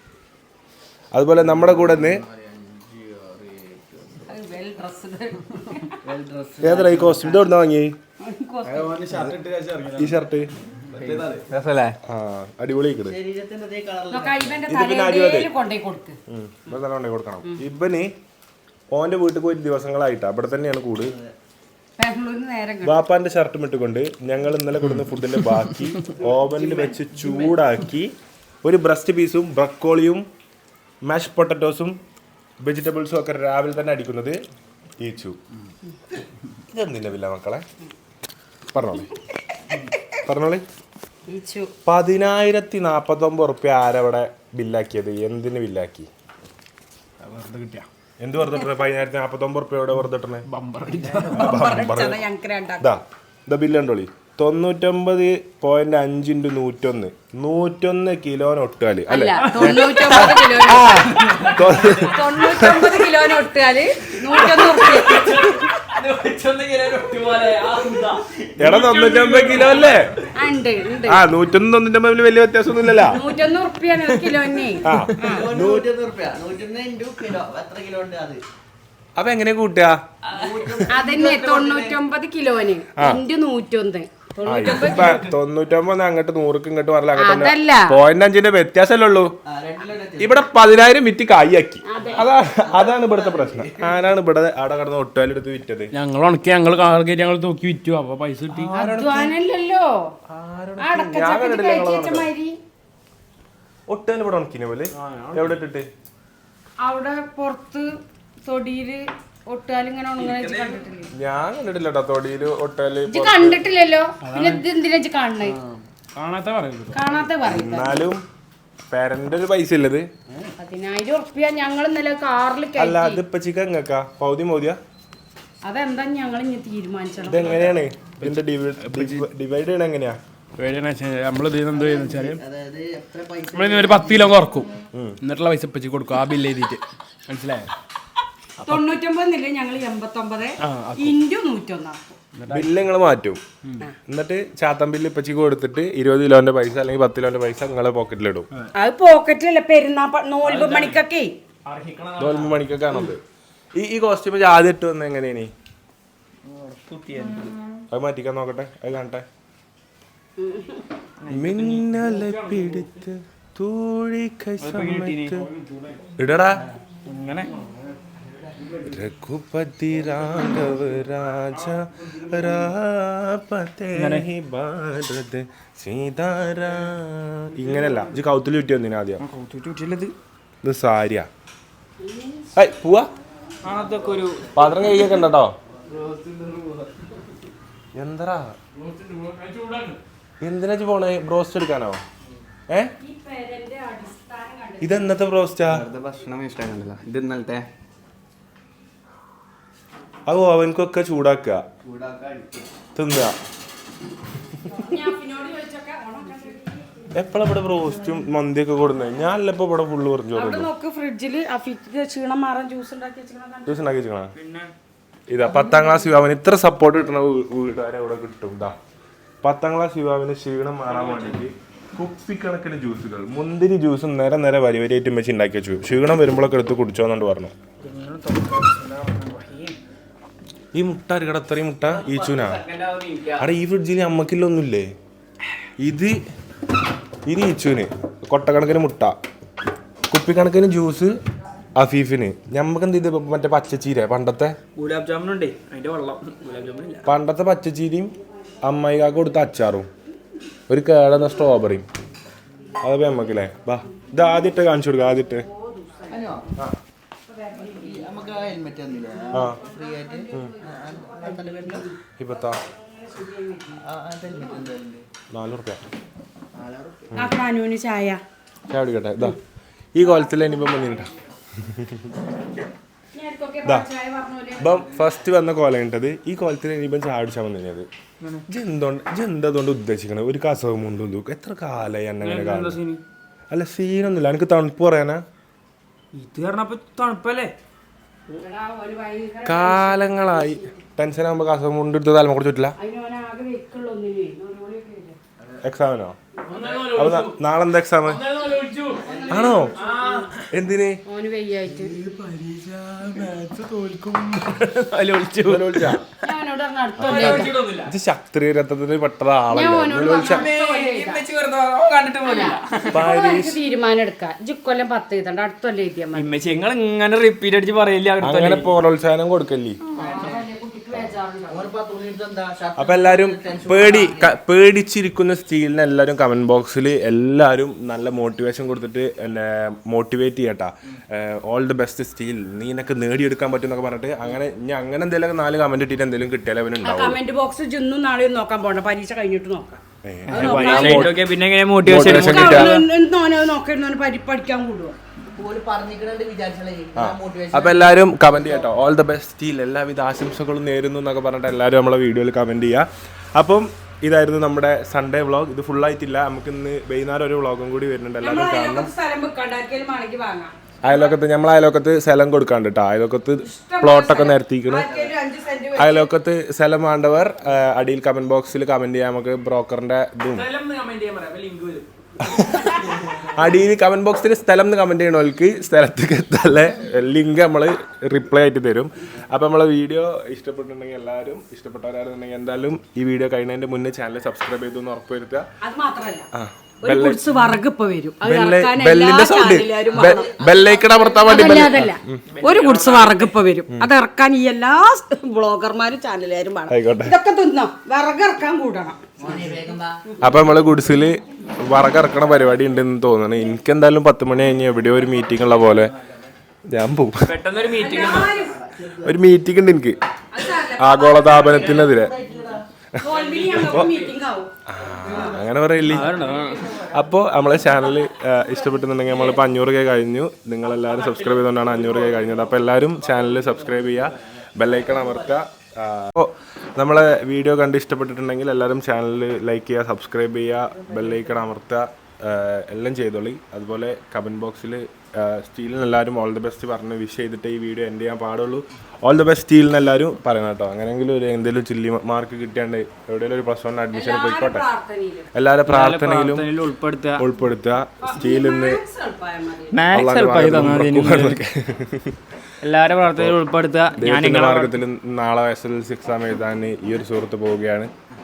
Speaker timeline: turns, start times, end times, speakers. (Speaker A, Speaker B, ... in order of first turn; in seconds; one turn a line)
Speaker A: 1.1-2.2
Speaker B: 1.5-4.2
Speaker C: 4.3-6.0
Speaker B: 6.0-7.5
Speaker A: 6.6-8.0
Speaker C: 8.2-9.1
Speaker D: 8.7-10.1
Speaker A: 9.9-10.5
Speaker D: 10.9-11.4
Speaker B: 10.9-11.4
Speaker E: 11.5-12.0
Speaker A: 12.1-13.2
Speaker B: 13.0-14.6
Speaker C: 14.1-16.2
Speaker A: 14.7-15.5
Speaker A: 16.3-18.1
Speaker A: 18.9-21.1
Speaker B: 21.0-21.4
Speaker C: 22.0-23.0
Speaker A: 22.8-30.3
Speaker B: 26.6-27.5
Speaker A: 31.0-32.0
Speaker A: 32.6-34.4
Speaker A: 35.0-35.4
Speaker A: 36.7-37.6
Speaker A: 38.7-39.1
Speaker A: 40.3-40.6
Speaker C: 41.3-41.7
Speaker A: 41.9-46.1
Speaker D: 47.2-47.9
Speaker A: 48.2-50.5
Speaker D: 50.5-51.5
Speaker C: 51.1-52.9
Speaker A: 51.3-52.2
Speaker A: 52.8-63.1
Speaker C: 59.1-61.2
Speaker C: 62.0-65.2
Speaker A: 64.2-65.6
Speaker E: 64.8-70.0
Speaker A: 68.6-70.1
Speaker D: 68.6-69.5
Speaker C: 70.3-71.2
Speaker A: 71.1-73.2
Speaker C: 73.1-75.5
Speaker A: 74.8-75.9
Speaker B: 75.2-78.4
Speaker A: 79.2-80.0
Speaker B: 80.3-82.0
Speaker C: 80.9-85.3
Speaker A: 83.0-83.2
Speaker A: 84.5-89.3
Speaker C: 87.2-88.0
Speaker B: 89.5-90.3
Speaker A: 90.2-95.9
Speaker C: 91.9-92.2
Speaker B: 92.0-94.0
Speaker D: 96.0-98.7
Speaker E: 96.1-98.6
Speaker A: 98.5-99.3
Speaker C: 98.7-100.0
Speaker A: 100.3-102.3
Speaker C: 100.8-102.6
Speaker A: 103.9-105.9
Speaker D: 105.0-105.4
Speaker C: 106.8-107.9
Speaker C: 108.4-111.1
Speaker E: 110.2-110.8
Speaker A: 111.1-113.7
Speaker C: 113.1-115.6
Speaker D: 114.2-114.6
Speaker D: 116.2-117.1
Speaker C: 116.9-118.1
Speaker A: 117.4-118.2
Speaker A: 118.9-120.1
Speaker C: 120.6-123.2
Speaker A: 122.8-124.8
Speaker C: 125.6-127.5
Speaker A: 127.2-130.2
Speaker D: 128.2-129.3
Speaker D: 130.6-132.4
Speaker B: 131.7-134.4
Speaker D: 133.5-134.7
Speaker D: 135.2-137.7
Speaker C: 138.7-142.2
Speaker D: 140.6-141.2
Speaker D: 142.4-142.7
Speaker A: 142.5-143.4
Speaker A: 144.1-148.5
Speaker C: 148.8-151.3
Speaker E: 150.4-151.0
Speaker E: 151.7-153.1
Speaker A: 152.2-153.2
Speaker A: 153.7-155.5
Speaker E: 156.4-157.6
Speaker A: 157.9-159.3
Speaker C: 160.4-160.8
Speaker E: 161.2-162.0
Speaker A: 161.3-165.5
Speaker D: 162.1-162.8
Speaker E: 164.6-165.4
Speaker D: 165.5-166.0
Speaker A: 166.2-166.7
Speaker E: 167.1-167.5
Speaker D: 168.6-168.9
Speaker A: 168.8-179.2
Speaker E: 173.9-174.3
Speaker E: 179.2-180.1
Speaker A: 180.6-181.3
Speaker C: 182.0-182.6
Speaker A: 182.5-183.1
Speaker E: 183.6-184.5
Speaker A: 184.5-185.6
Speaker B: 185.9-186.8
Speaker D: 186.3-186.7
Speaker A: 187.9-188.6
Speaker D: 188.8-190.0
Speaker A: 190.4-192.0
Speaker C: 193.0-195.2
Speaker A: 194.8-195.9
Speaker B: 195.7-197.7
Speaker A: 200.3-201.6
Speaker B: 201.8-202.7
Speaker A: 202.9-203.3
Speaker C: 204.7-206.9
Speaker A: 207.1-210.7
Speaker C: 210.4-213.8
Speaker A: 213.7-214.3
Speaker E: 214.3-214.7
Speaker A: 215.3-218.8
Speaker A: 219.4-227.5
Speaker E: 220.9-221.4
Speaker E: 227.8-229.8
Speaker A: 230.7-232.6
Speaker E: 231.9-233.5
Speaker A: 233.4-234.9
Speaker A: 235.8-236.2
Speaker A: 237.2-239.2
Speaker A: 240.1-241.2
Speaker A: 241.8-244.6
Speaker E: 244.8-247.1
Speaker A: 247.1-249.9
Speaker A: 250.7-251.9
Speaker A: 252.8-255.5
Speaker C: 255.3-256.3
Speaker B: 256.1-256.5
Speaker C: 257.3-258.5
Speaker B: 257.7-261.9
Speaker C: 259.3-264.6
Speaker A: 259.3-259.6
Speaker A: 262.2-262.6
Speaker B: 263.8-265.1
Speaker A: 265.3-265.8
Speaker B: 266.5-267.1
Speaker C: 267.1-268.2
Speaker A: 268.7-269.4
Speaker A: 269.9-272.1
Speaker C: 270.3-270.9
Speaker C: 273.1-274.8
Speaker A: 274.6-277.9
Speaker B: 274.6-275.1
Speaker A: 278.5-282.8
Speaker E: 282.2-283.0
Speaker A: 283.5-285.2
Speaker E: 286.1-287.5
Speaker C: 288.3-290.8
Speaker A: 289.4-292.8
Speaker C: 292.8-295.2
Speaker A: 295.6-296.2
Speaker D: 296.5-297.2
Speaker A: 296.8-298.3
Speaker E: 297.1-297.3
Speaker D: 298.1-298.8
Speaker E: 298.6-299.0
Speaker C: 299.0-300.3
Speaker A: 299.3-299.8
Speaker D: 299.8-300.2
Speaker A: 300.5-301.0
Speaker C: 301.1-302.0
Speaker A: 301.7-303.3
Speaker E: 303.0-306.1
Speaker A: 305.4-306.0
Speaker C: 306.2-307.5
Speaker A: 307.0-310.5
Speaker E: 307.0-307.9
Speaker C: 309.5-311.2
Speaker E: 310.2-313.0
Speaker C: 312.2-316.3
Speaker A: 312.9-313.6
Speaker E: 316.1-318.7
Speaker A: 318.2-319.8
Speaker C: 320.0-321.7
Speaker E: 320.0-320.3
Speaker B: 321.5-324.3
Speaker A: 322.8-337.2
Speaker C: 336.8-339.7
Speaker A: 340.0-341.2
Speaker E: 340.3-342.9
Speaker C: 340.3-341.1
Speaker A: 341.8-342.8
Speaker C: 341.9-345.0
Speaker B: 345.4-348.7
Speaker A: 347.0-358.9
Speaker C: 358.2-361.2
Speaker A: 360.8-364.9
Speaker C: 363.4-366.1
Speaker B: 364.9-365.1
Speaker A: 365.8-370.5
Speaker E: 370.3-371.9
Speaker A: 372.2-385.5
Speaker C: 372.3-373.1
Speaker C: 385.6-386.3
Speaker A: 386.3-387.6
Speaker C: 386.8-390.3
Speaker A: 388.2-392.2
Speaker B: 389.9-391.7
Speaker C: 391.2-399.5
Speaker E: 392.3-393.3
Speaker A: 396.7-397.2
Speaker B: 399.2-400.0
Speaker A: 400.2-405.9
Speaker A: 406.7-407.3
Speaker E: 407.2-408.4
Speaker C: 407.7-408.6
Speaker B: 408.2-409.1
Speaker A: 409.0-410.0
Speaker C: 410.3-411.9
Speaker A: 410.8-412.1
Speaker B: 411.3-413.9
Speaker C: 413.0-414.5
Speaker A: 413.5-414.0
Speaker A: 414.7-416.2
Speaker B: 414.9-417.0
Speaker E: 415.8-416.6
Speaker A: 416.9-444.7
Speaker E: 419.1-419.4
Speaker E: 420.9-422.2
Speaker B: 423.4-424.1
Speaker B: 424.7-425.2
Speaker B: 430.9-431.1
Speaker C: 443.9-445.3
Speaker A: 445.3-446.5
Speaker E: 445.7-447.3
Speaker A: 447.2-448.8
Speaker C: 448.0-449.8
Speaker E: 449.7-451.4
Speaker A: 449.9-452.3
Speaker E: 452.6-454.8
Speaker A: 453.0-453.4
Speaker A: 454.0-457.9